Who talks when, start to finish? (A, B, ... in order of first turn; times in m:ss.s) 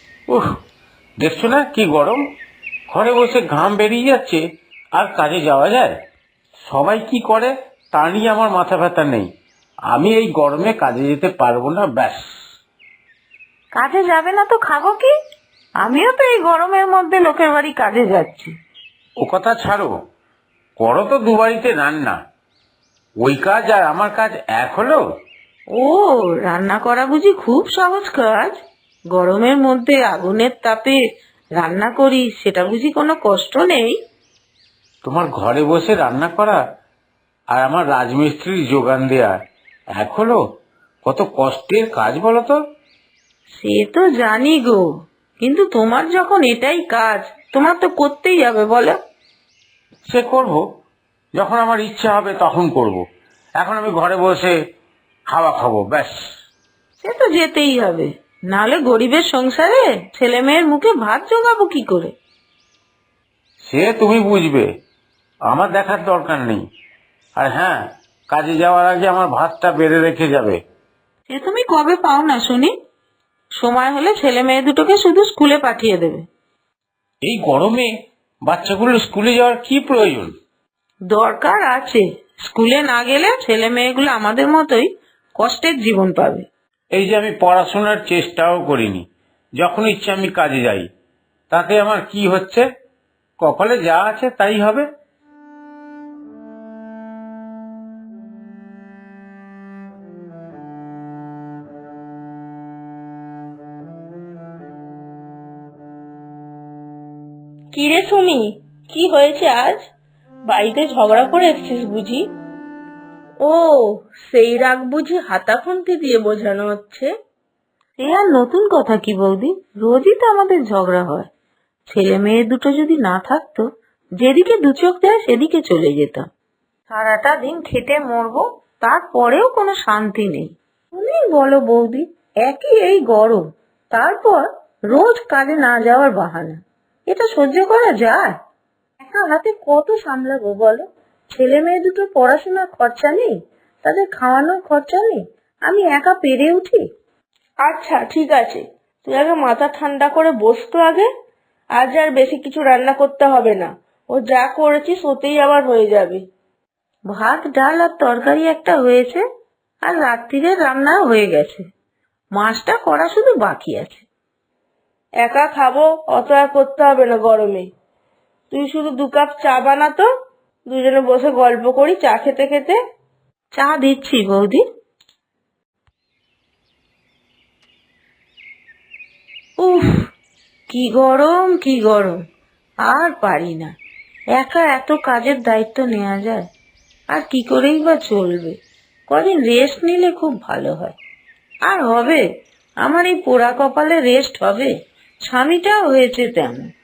0:01.2-0:02.2 A
0:02.9-0:04.4 A
0:04.9-0:05.9 A
0:06.6-0:09.3 A
0:09.9-0:12.2 A
0:13.7-0:15.1 B
0:15.8-0:18.5 B
0:19.2-0:19.9 A
0:20.8-0:22.2 A
0:23.2-0:25.0 A
0:25.7-0:28.6 B
0:29.1-0:31.0 B
0:31.6-0:34.0 B
0:35.0-0:36.6 A
0:37.5-0:39.3 A
0:39.9-0:40.4 A
0:41.0-0:42.6 A
0:43.5-0:44.8 B
0:45.4-0:49.0 B
0:50.1-0:50.6 A
0:51.4-0:53.0 A
0:53.6-0:54.5 A
0:55.3-0:56.2 A
0:57.0-1:02.1 B
1:03.6-1:04.7 A
1:05.5-1:06.6 A
1:07.4-1:10.6 A
1:11.3-1:12.7 B
1:13.6-1:16.2 B
1:17.2-1:17.9 A
1:18.4-1:20.3 A
1:21.1-1:26.5 B
1:26.9-1:29.0 A
1:29.6-1:30.9 A
1:31.5-1:32.6 A
1:33.4-1:34.8 A
1:47.7-1:49.8 C
1:50.5-1:52.3 C
1:53.4-1:57.1 C
1:58.0-2:01.3 B
2:01.9-2:03.6 B
2:04.2-2:06.3 B
2:06.9-2:18.3 B
2:19.0-2:26.8 B
2:27.6-2:31.1 C
2:31.8-2:36.2 C
2:37.1-2:39.2 B
2:39.8-2:41.6 B
2:42.4-2:44.0 B
2:45.2-2:47.7 C
2:48.5-2:50.1 C
2:50.7-2:52.8 C
2:53.5-2:54.6 B
2:59.6-2:59.9 B
3:00.7-3:02.2 B
3:02.8-3:03.7 B
3:04.4-3:06.5 B
3:07.1-3:08.6 B
3:09.1-3:11.0 B
3:11.7-3:12.2 B
3:12.8-3:14.7 B
3:15.3-3:16.7 B